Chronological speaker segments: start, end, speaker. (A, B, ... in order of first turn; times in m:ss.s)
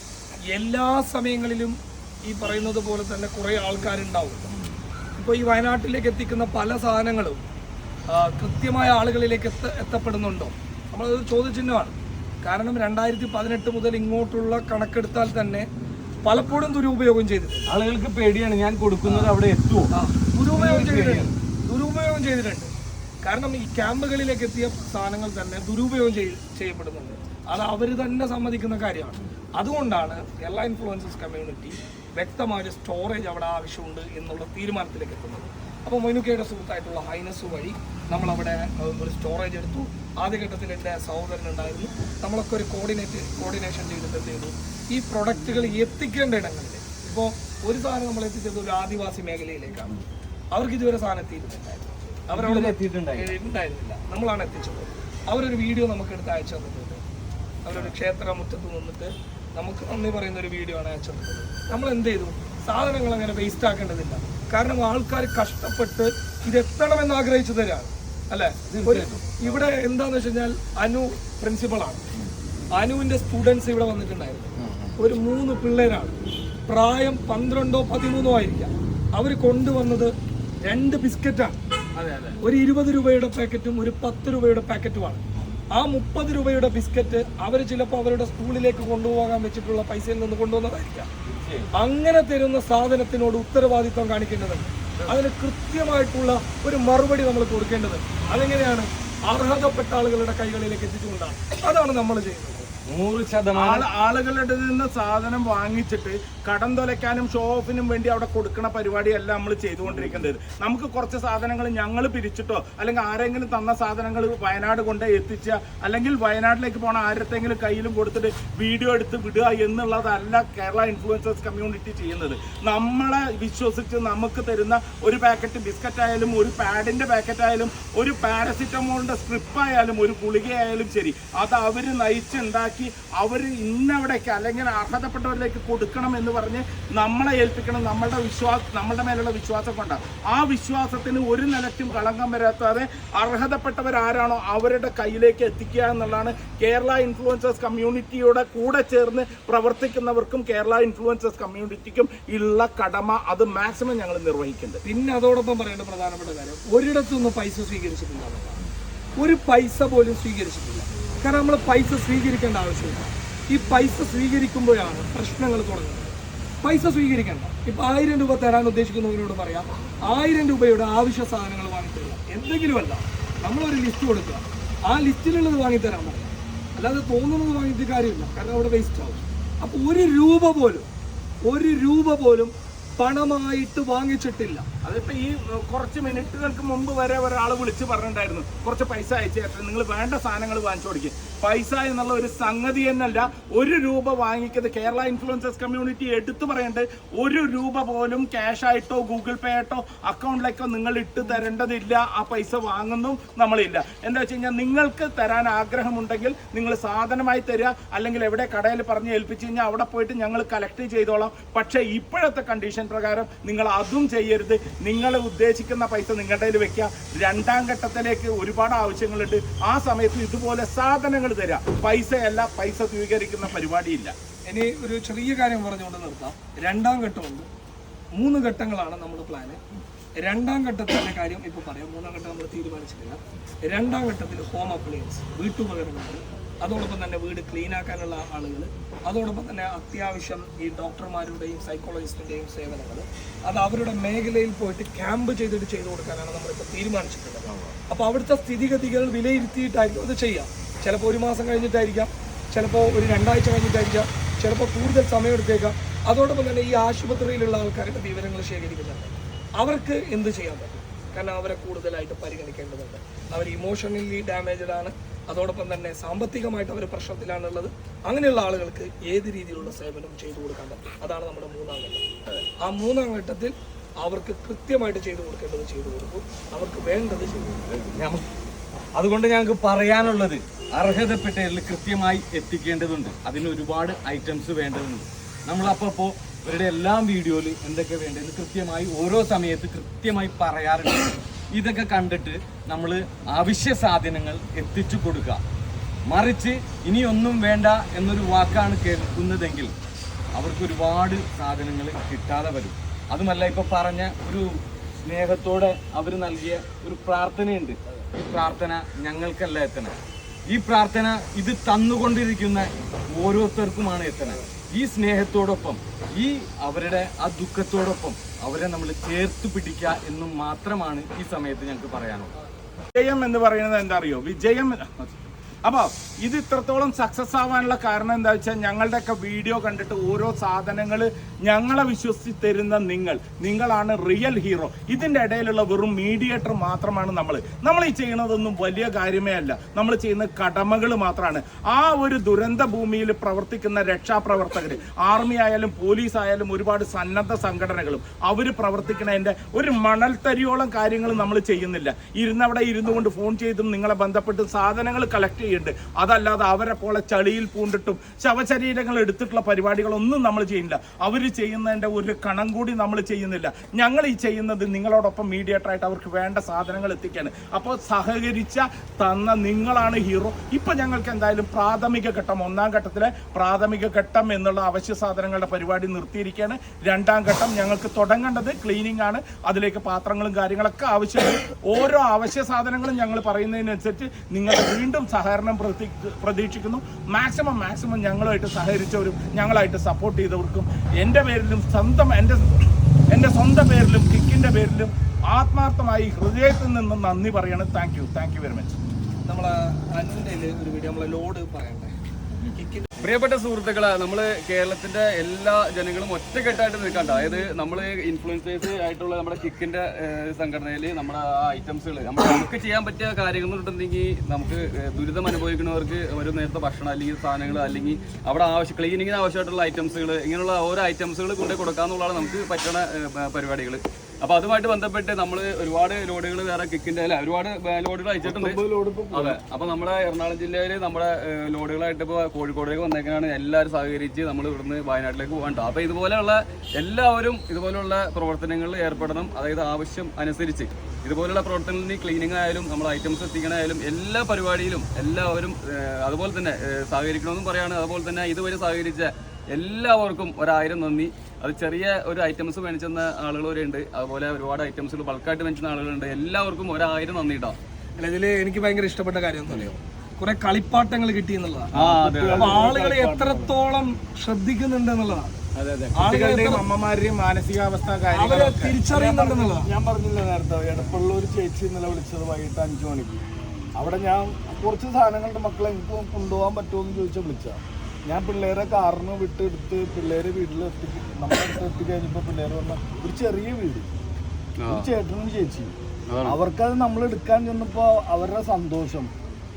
0:00.5-0:04.5 A
0:05.2-0:07.4 A
0:08.1-0:15.6 A
0:16.2-0:17.7 A
0:17.7-0:21.3 B
0:19.0-0:19.3 A
0:19.9-0:22.7 A
0:23.2-0:49.9 A
0:50.5-0:57.0 A
0:52.3-0:53.3 B
0:57.6-1:12.0 A
1:08.7-1:09.6 B
1:12.8-1:16.1 A
1:14.6-1:14.9 B
1:16.7-1:20.1 A
1:20.6-1:21.6 A
1:22.0-1:22.4 B
1:22.4-1:25.2 A
1:25.7-1:31.1 A
1:31.2-1:31.7 B
1:31.7-1:42.7 A
1:42.9-1:43.8 B
1:43.5-2:34.8 C
2:34.8-2:38.6 A
2:39.2-3:00.9 A
3:01.4-3:04.6 A
3:04.8-3:44.1 C
3:44.5-3:47.5 A
3:48.2-3:49.6 A
3:50.2-4:32.0 A
4:32.6-4:37.6 A
4:37.7-4:38.2 B
4:38.9-4:55.4 B
4:56.1-4:59.7 B
5:00.4-5:09.9 B
5:10.5-5:22.3 B
5:22.9-6:38.8 C
6:39.2-6:41.9 A
6:42.6-6:42.9 A
6:43.0-7:37.6 D
7:08.2-7:09.4 E
7:38.0-7:41.7 A
7:41.7-7:42.7 D
7:41.8-7:43.6 E
7:42.4-7:45.4 A
7:45.9-7:48.8 C
7:45.9-7:46.6 A
7:48.1-7:49.7 A
7:48.9-7:53.2 E
7:53.8-8:03.9 E
8:04.6-8:04.9 D
8:04.7-8:09.1 E
8:06.1-8:06.4 D